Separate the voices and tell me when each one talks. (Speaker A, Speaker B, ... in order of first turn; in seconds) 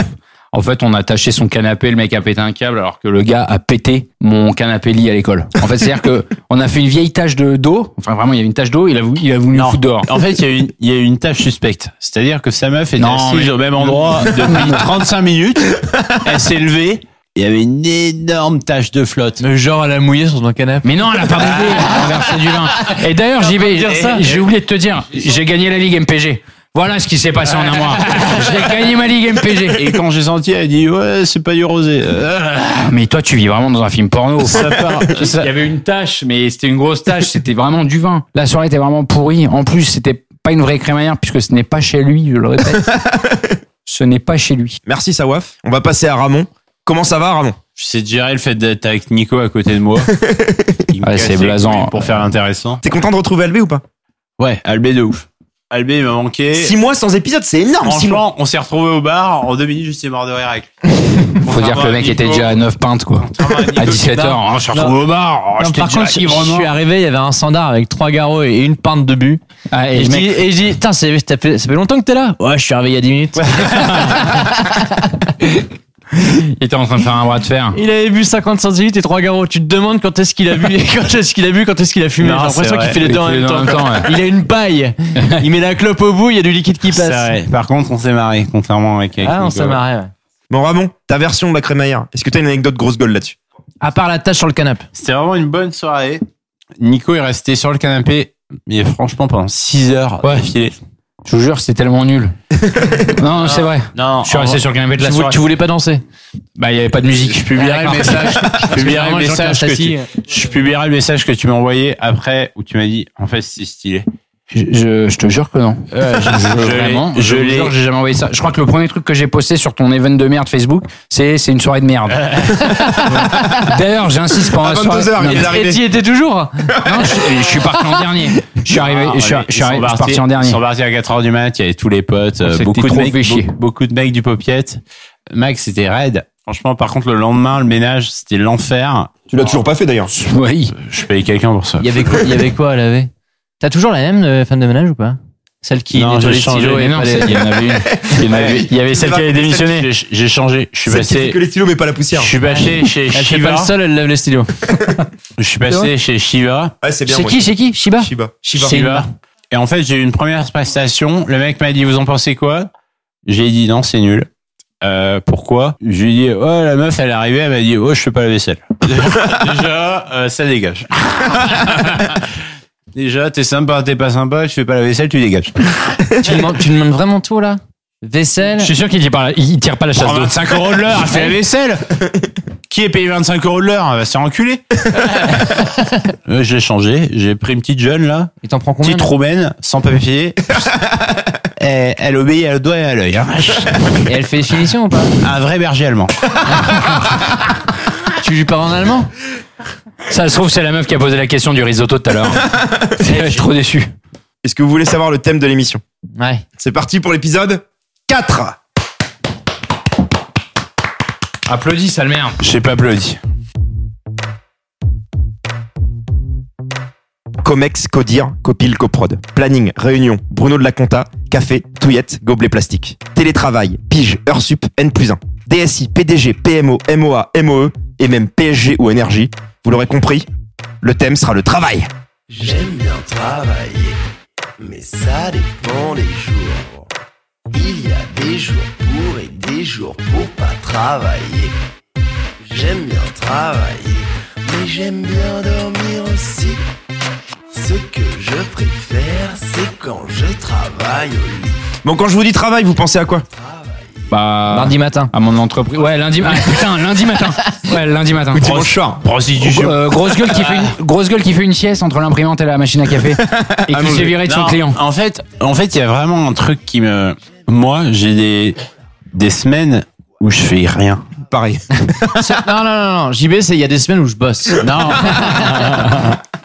Speaker A: 0.5-10.1, 13.0-14.9, 20.8-29.9, 32.8-43.0, 43.9-44.8, 51.0-52.0, 61.5-66.7, 69.7-70.5, 76.3-77.8, 83.0-84.1, 101.2-102.3, 103.1-105.4, 106.5-108.6, 114.5-125.5, 126.8-130.6, 132.4-133.5, 140.1-140.8, 146.7-149.9, 178.6-180.5, 200.1-203.9, 211.5-212.3, 254.1-258.7, 259.4-264.8, 275.6-276.1
Speaker B: 9.5-19.4, 21.4-23.0, 27.9-28.5, 29.7-32.9, 34.4-35.5, 47.8-50.1, 50.9-52.8, 54.4-56.8, 57.8-60.7, 61.4-62.6, 63.3-64.3, 65.0-65.6, 73.4-74.3, 82.2-83.0, 86.9-89.8, 95.0-96.2, 96.8-100.8, 103.5-104.6, 107.2-114.0, 115.9-117.7, 128.7-134.8, 135.3-139.2, 140.8-142.4, 145.9-146.9, 148.3-148.6, 149.6-151.4, 152.2-153.7, 155.4-156.7, 158.5-162.7, 163.2-164.3, 164.8-172.3, 172.9-176.2, 180.0-182.1, 182.7-185.7, 186.2-188.3, 188.8-190.8, 191.6-194.0, 195.2-196.2, 212.4-213.2, 259.0-260.8, 264.0-268.6, 269.1-271.1, 274.6-275.9
Speaker C: 19.4-20.9, 23.5-24.2, 63.9-65.0, 65.6-69.4, 69.9-75.1, 77.7-87.3, 89.2-90.1, 93.8-94.8, 105.0-106.0, 107.5-110.1, 125.3-126.7, 141.8-143.1, 143.6-147.4, 153.1-154.9, 157.1-159.1, 176.2-178.7, 188.4-189.1, 194.1-195.1, 196.5-197.0, 198.2-199.1, 203.0-203.4, 206.2-206.4, 254.5-255.1, 272.1-275.5
Speaker D: 42.8-43.5, 44.9-47.6, 50.2-50.8, 52.8-53.8, 56.5-58.2, 90.5-93.4, 124.6-125.8, 126.7-127.2, 139.3-140.1, 148.0-149.8, 150.9-152.3, 156.8-158.7, 204.4-205.8, 206.6-208.6, 217.4-230.3, 230.8-231.9, 251.8-253.2, 258.3-259.6, 263.2-264.1, 271.3-272.2
Speaker E: 232.3-234.0, 234.6-236.9, 237.5-241.6, 242.4-246.7, 247.5-251.7, 253.3-254.1